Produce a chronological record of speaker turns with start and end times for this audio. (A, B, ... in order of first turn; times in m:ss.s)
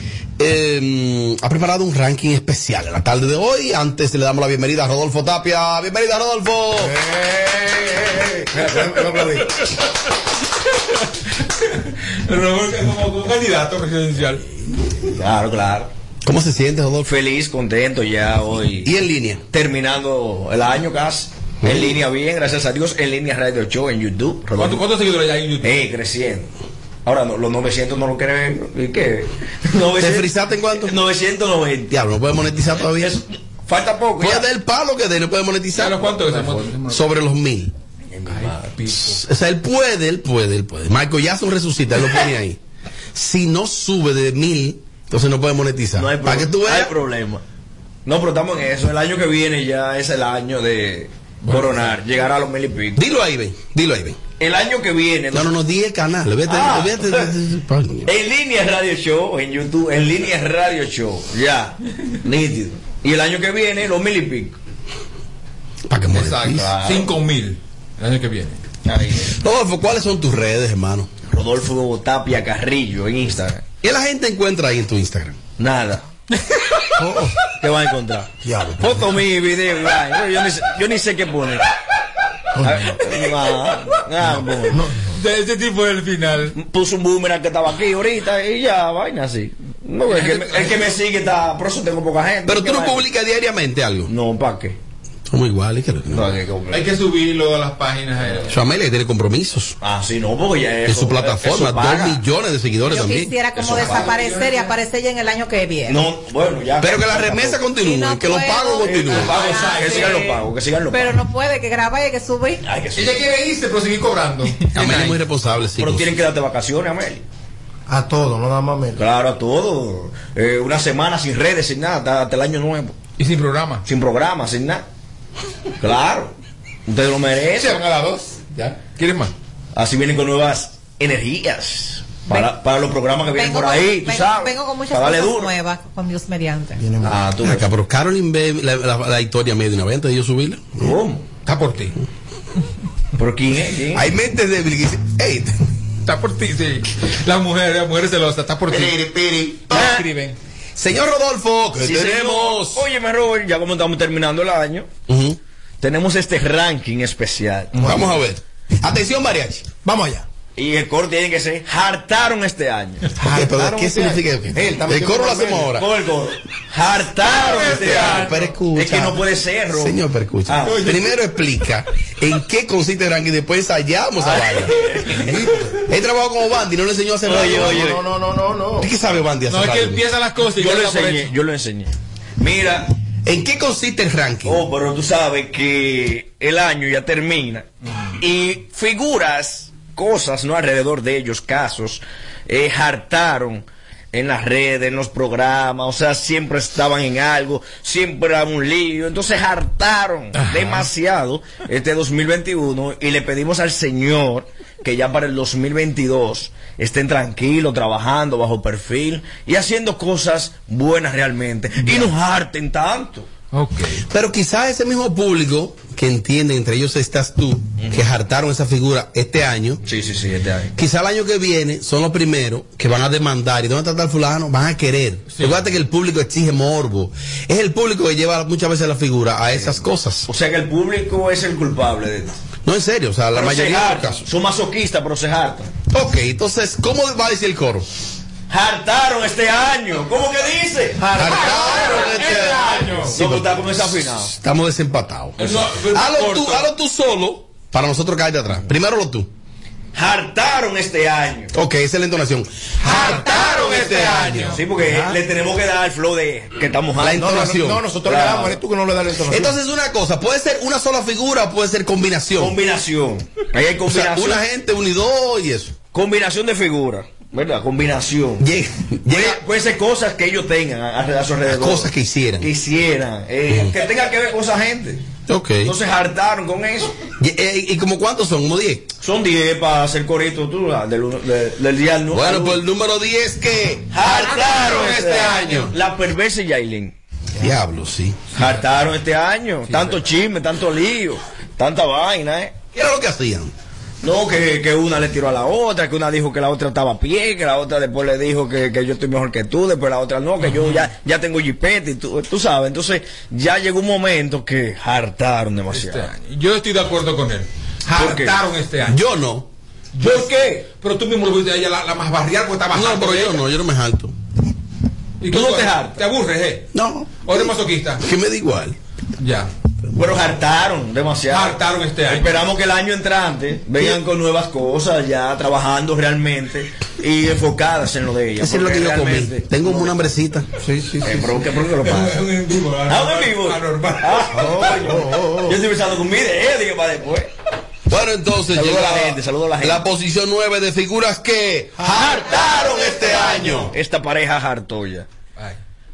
0:00.4-0:06.9 A
0:06.8-0:09.6 B
0:11.7-0:14.4 C
0:15.1-0:15.9 D
0:16.2-0:17.1 A
0:17.0-0:18.9 D
0:18.8-0:19.4 A
0:19.5-0:24.8 D
0:21.6-0:22.0 A
0:24.6-0:25.8 C
0:25.6-0:26.5 D
0:27.0-0:31.9 D
0:30.0-0:31.0 A
0:31.9-0:33.2 A
0:32.8-0:34.5 D
0:34.2-0:37.7 A
0:35.7-0:37.0 C
0:38.1-0:38.7 D
0:38.3-0:39.2 C
0:39.0-0:42.6 A
0:43.1-0:46.9 A
0:46.0-0:47.4 D
0:48.0-0:53.0 D
0:51.5-0:51.8 C
0:53.0-0:54.2 A
0:54.4-0:55.5 D
0:55.3-0:58.1 A
0:56.5-0:57.3 D
0:58.0-1:04.5 D
1:05.9-1:06.7 A
1:06.1-1:08.6 C
1:06.4-1:07.1 D
1:08.8-1:09.4 D
1:09.4-1:11.1 A
1:11.3-1:13.6 D
1:13.8-1:15.4 A
1:15.6-1:16.0 D
1:17.0-1:17.4 B
1:17.6-1:21.7 D
1:18.4-1:19.1 B
1:22.6-1:23.0 B
1:22.6-1:24.8 D
1:24.7-1:25.1 B
1:25.1-1:26.6 C
1:26.6-1:33.0 D
1:30.1-1:30.9 C
1:32.4-1:34.1 A
1:34.1-1:34.8 D
1:35.3-1:36.3 A
1:36.1-1:36.8 D
1:36.7-1:38.6 C
1:38.5-1:39.8 A
1:39.8-1:42.2 D
1:40.8-1:43.3 A
1:42.9-1:46.0 E
1:43.5-1:44.2 D
1:43.8-1:44.6 C
1:45.9-1:47.6 D
1:46.8-1:49.3 A
1:47.8-1:50.3 E
1:48.8-1:51.2 D
1:49.2-1:50.4 C
1:50.9-1:52.6 E
1:52.6-1:53.2 D
1:53.0-1:55.2 C
1:54.7-1:56.1 A
1:55.8-1:57.2 D
1:57.9-1:59.0 B
1:59.0-2:03.0 D
2:03.2-2:03.8 C
2:03.8-2:04.8 D
2:05.8-2:06.3 D
2:06.9-2:07.8 D
2:07.6-2:09.3 C
2:09.7-2:15.5 D
2:13.4-2:16.8 E
2:16.8-2:17.2 B
2:17.0-2:17.6 D
2:17.4-2:20.9 A
2:20.8-2:21.2 D
2:21.4-2:21.9 C
2:23.2-2:24.1 D
2:23.9-2:25.6 A
2:26.0-2:29.1 C
2:28.7-2:29.6 B
2:29.7-2:30.4 C
2:29.7-2:30.0 D
2:30.8-2:32.8 A
2:31.8-2:34.9 D
2:35.1-2:35.4 A
2:35.8-2:38.1 D
2:37.8-2:39.7 A
2:39.8-2:40.2 B
2:40.6-2:43.1 D
2:43.2-2:45.7 B
2:43.3-2:45.9 A
2:45.7-2:50.0 D
2:47.4-2:48.4 C
2:47.5-2:49.2 A
2:49.7-2:54.8 A
2:50.5-2:51.0 D
2:50.7-2:51.0 C
2:54.2-2:55.4 D
2:55.2-2:55.8 B
2:55.9-2:57.8 A
2:57.2-2:58.0 D
2:57.4-2:58.9 B
2:58.8-3:00.0 A
2:59.5-3:01.3 C
3:00.5-3:02.9 D
3:03.2-3:04.6 A
3:04.4-3:07.6 D
3:08.2-3:33.3 D
3:33.5-3:34.0 C
3:34.0-3:39.8 A
3:39.8-3:40.7 D
3:40.8-3:50.3 A
3:49.5-3:52.4 D
3:52.6-3:54.2 A
3:53.3-3:55.7 D
3:55.9-3:57.8 A
3:58.5-4:04.3 D
4:01.0-4:01.5 B
4:01.2-4:09.3 A
4:01.4-4:03.1 C
4:05.4-4:06.7 C
4:09.9-4:11.5 D
4:11.5-4:15.1 A
4:12.8-4:14.6 C
4:14.5-4:17.4 D
4:14.8-4:15.1 B
4:17.0-4:17.8 A
4:17.1-4:19.6 B
4:18.0-4:18.6 D
4:19.3-4:22.6 A
4:22.4-4:24.4 D
4:23.9-4:25.8 A
4:25.9-4:28.5 D
4:28.4-4:29.4 A
4:29.1-4:35.0 D
4:31.4-4:32.5 A
4:35.3-4:35.7 A
4:35.6-4:36.9 D
4:37.2-4:38.9 A
4:39.0-4:42.6 D
4:42.1-4:43.9 A
4:43.9-4:46.9 D
4:44.0-4:45.7 C
4:47.4-4:48.2 A
4:48.3-4:48.6 C
4:48.3-4:52.5 D
4:49.7-4:50.1 C
4:52.7-4:53.5 A
4:54.0-5:06.1 D
5:00.4-5:00.9 C
5:05.7-5:09.0 C
5:07.9-5:08.4 D
5:08.8-5:09.5 A
5:09.9-5:13.4 C
5:10.0-5:10.6 D
5:12.7-5:14.1 A
5:15.2-5:16.6 C
5:15.3-5:16.0 D
5:16.7-5:17.4 A
5:17.2-5:18.0 C
5:18.0-5:18.8 A
5:19.2-5:19.5 C
5:19.9-5:29.9 D
5:21.3-5:22.4 C
5:28.4-5:30.5 A
5:30.6-5:31.4 B
5:31.0-5:32.2 D
5:31.8-5:34.3 C
5:32.9-5:37.3 D
5:34.3-5:35.6 B
5:37.9-5:43.7 A
5:38.5-5:39.9 D
5:41.8-5:42.1 B
5:41.8-5:45.1 D